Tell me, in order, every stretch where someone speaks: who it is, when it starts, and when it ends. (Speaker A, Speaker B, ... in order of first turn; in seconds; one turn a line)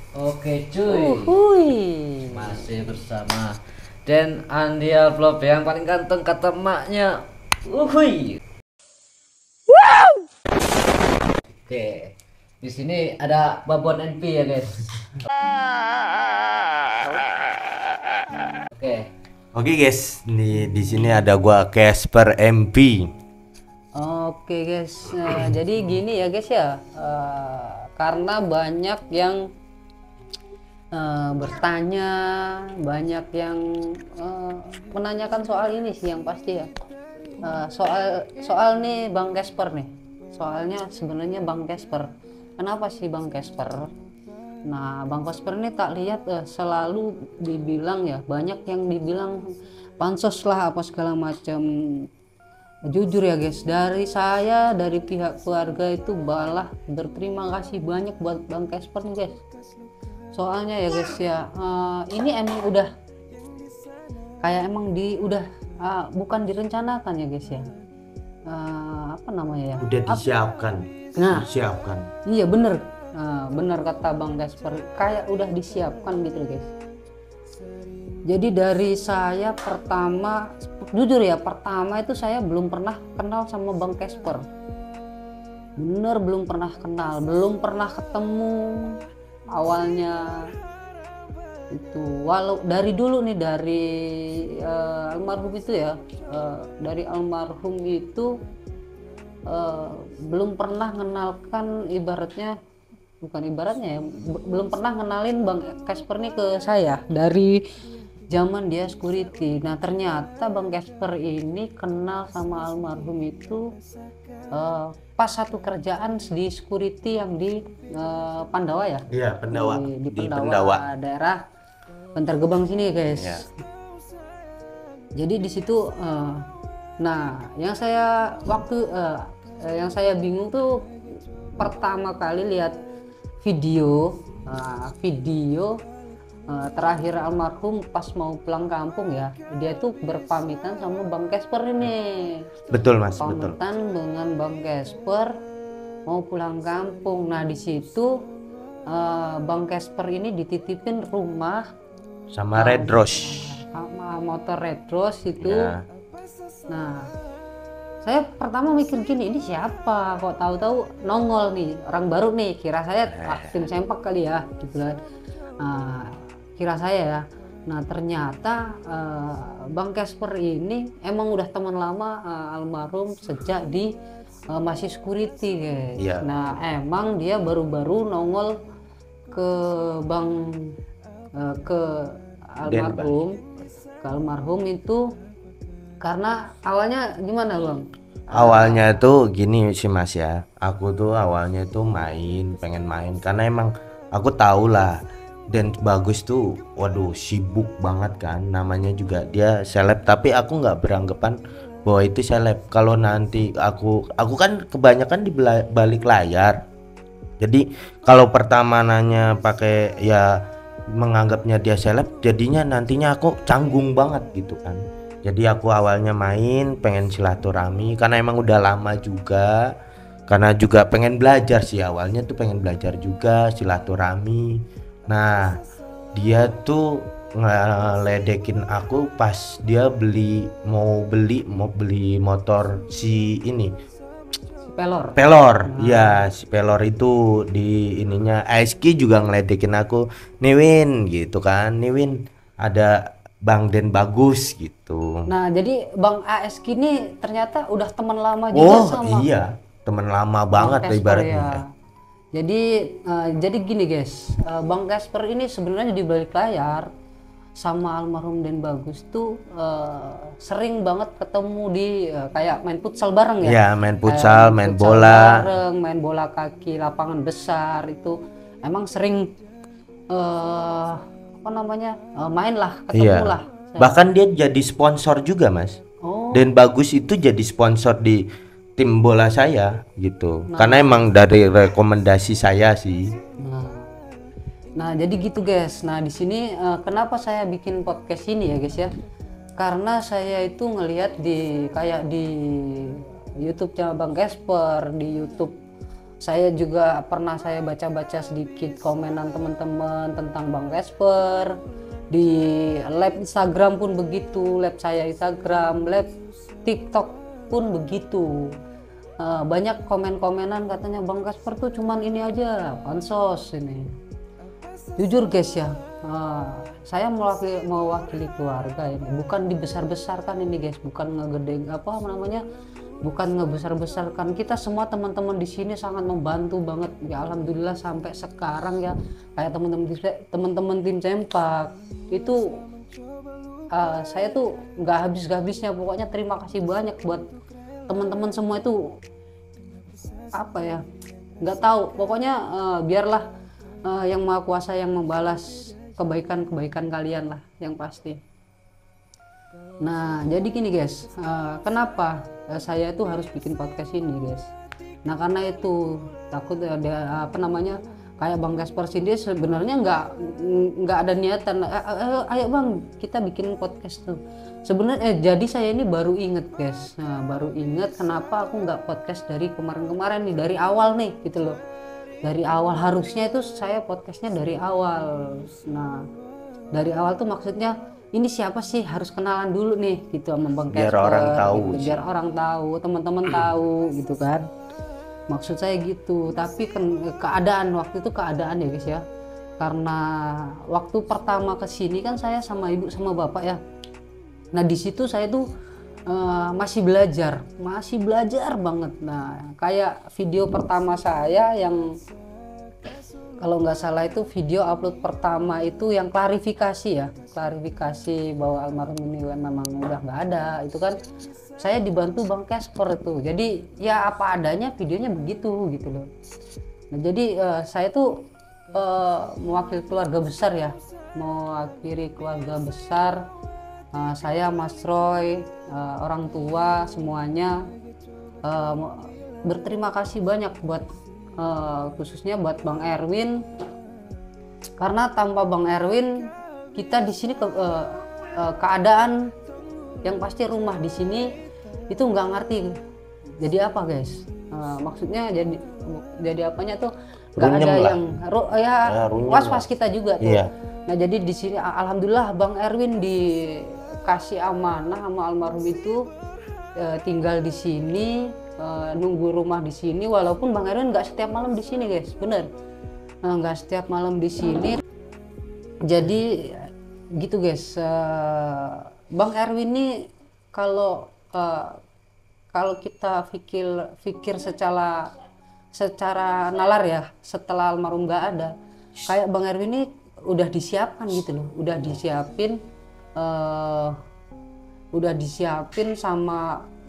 Speaker A: 0.1-1.4
Speaker B: 0.9-2.6
Speaker A: 2.3-3.5
Speaker A: 4.0-8.4
Speaker A: 11.7-15.0
Speaker A: 18.7-19.1
Speaker C: 19.5-23.1
Speaker B: 23.9-29.4
Speaker B: 30.9-36.7
Speaker B: 37.4-42.1
Speaker B: 42.6-43.9
Speaker B: 44.7-49.4
Speaker B: 50.0-52.1
Speaker B: 52.9-59.4
Speaker B: 60.3-62.9
Speaker B: 64.4-67.7
Speaker B: 68.5-70.2
Speaker C: 69.8-72.1
Speaker B: 71.1-71.5
Speaker B: 72.2-76.7
Speaker B: 78.3-84.5
Speaker B: 85.8-89.0
Speaker B: 89.5-90.5
Speaker B: 91.7-98.3
Speaker B: 99.5-102.5
Speaker B: 103.2-107.6
Speaker B: 108.3-113.6
Speaker B: 114.5-121.4
Speaker C: 119.1-120.8
Speaker B: 122.1-123.5
Speaker C: 123.2-123.4
Speaker B: 125.2-126.5
Speaker B: 127.0-130.8
Speaker B: 131.6-132.8
Speaker B: 133.4-135.8
Speaker B: 136.5-142.5
Speaker C: 142.7-143.6
Speaker B: 143.2-145.3
Speaker B: 146.1-148.2
Speaker B: 148.9-151.7
Speaker C: 152.3-153.6
Speaker B: 152.6-155.7
Speaker C: 155.4-155.8
Speaker B: 156.7-157.1
Speaker B: 158.0-165.0
Speaker C: 163.1-163.6
Speaker B: 165.6-173.9
Speaker B: 174.5-178.6
Speaker C: 176.0-176.3
Speaker B: 179.3-180.7
Speaker B: 181.3-183.4
Speaker C: 182.6-183.1
Speaker B: 184.0-185.0
Speaker B: 186.0-188.9
Speaker C: 188.3-206.6
Speaker C: 207.4-210.4
Speaker C: 210.9-219.7
Speaker C: 220.3-225.6
Speaker C: 226.1-233.7
Speaker B: 234.7-236.3
Speaker C: 235.2-245.3
Speaker B: 245.3-249.3
Speaker C: 248.5-251.6
Speaker B: 250.5-251.7
Speaker B: 252.3-256.9
Speaker B: 257.6-269.3
Speaker C: 263.4-265.5
Speaker B: 270.1-274.0
Speaker C: 272.9-275.8
Speaker B: 276.0-276.5
Speaker C: 276.3-278.2
Speaker C: 278.8-283.1
Speaker B: 280.5-281.0
Speaker B: 283.4-283.9
Speaker B: 284.8-288.9
Speaker B: 289.6-295.5
Speaker B: 296.2-301.6
Speaker B: 302.1-306.1
Speaker B: 306.6-308.5
Speaker B: 309.2-313.9
Speaker B: 315.0-322.4
Speaker B: 323.0-332.5
Speaker B: 333.7-337.2
Speaker B: 337.9-338.8
Speaker B: 340.4-340.8
Speaker B: 341.4-343.3
Speaker B: 343.8-348.2
Speaker B: 349.8-354.5
Speaker B: 355.0-371.5
Speaker B: 372.2-376.1
Speaker B: 376.7-384.5
Speaker C: 380.7-382.0
Speaker B: 385.3-389.0
Speaker B: 389.6-393.6
Speaker B: 394.5-395.4
Speaker B: 396.1-401.8
Speaker B: 403.4-410.9
Speaker B: 411.6-416.1
Speaker B: 416.9-423.2
Speaker B: 423.9-427.6
Speaker B: 428.4-430.9
Speaker B: 431.4-433.4
Speaker B: 434.8-436.1
Speaker B: 436.8-439.3
Speaker B: 440.0-441.3
Speaker B: 441.9-442.7
Speaker B: 443.4-456.0
Speaker C: 447.4-448.0
Speaker C: 448.9-449.6
Speaker C: 450.2-450.5
Speaker B: 456.8-462.5
Speaker B: 463.2-464.8
Speaker B: 465.9-471.8
Speaker B: 472.5-475.1
Speaker B: 475.7-478.5
Speaker B: 479.1-482.6
Speaker B: 483.2-483.9
Speaker B: 484.9-486.6